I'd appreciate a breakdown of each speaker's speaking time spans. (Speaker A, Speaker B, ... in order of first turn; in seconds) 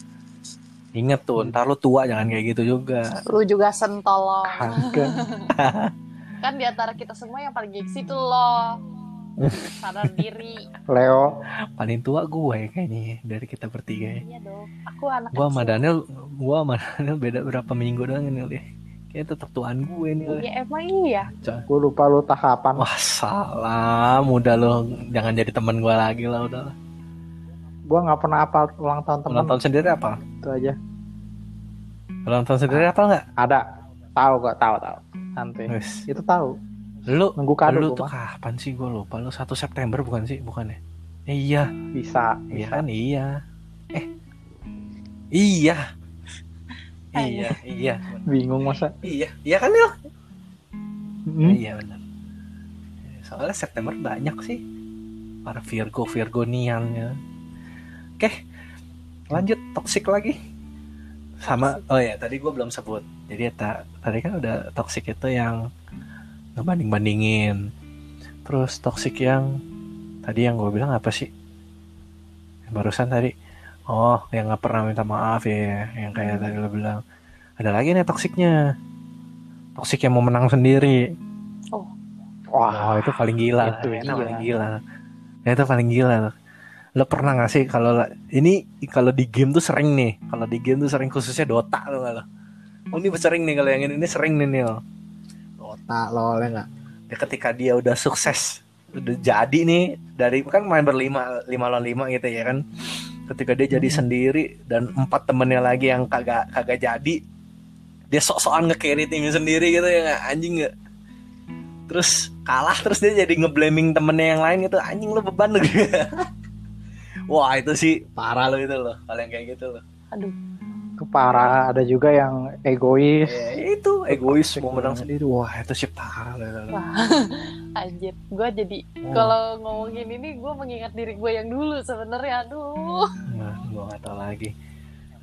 Speaker A: 0.9-3.1, 5.5-5.9, 11.8-14.2, 15.3-20.4, 21.4-21.6, 22.8-26.7, 29.3-30.2, 32.3-33.2, 35.7-36.0, 37.1-41.7, 42.5-43.3, 45.3-45.8, 47.1-48.3, 49.0-49.9, 51.4-52.0, 53.1-54.6, 55.5-57.1, 59.3-60.4, 61.4-65.6, 66.6-67.6, 68.5-69.5, 70.2-71.3, 72.7-73.3, 73.9-77.0, 77.6-78.6, 79.8-81.0, 82.7-84.8, 85.5-86.3, 87.0-92.2, 92.9-94.8, 95.6-102.6, 103.3-107.2, 108.1-110.7, 111.9-116.3, 117.3-119.8, 121.3-121.6, 123.2-126.8, 129.1-129.3, 133.3-134.5
Speaker B: 3.3-5.5, 6.4-8.8, 9.6-10.7, 14.1-15.8, 20.3-21.3, 47.2-47.6, 61.5-61.8, 76.1-76.5, 126.7-133.1
Speaker C: 4.5-5.1, 10.9-11.3, 21.7-22.9, 27.9-29.6, 30.4-30.8, 32.7-33.6, 34.2-36.5, 37.4-38.1, 41.9-42.8, 48.3-49.0, 51.3-51.6, 82.5-84.5, 103.7-104.0, 121.0-125.1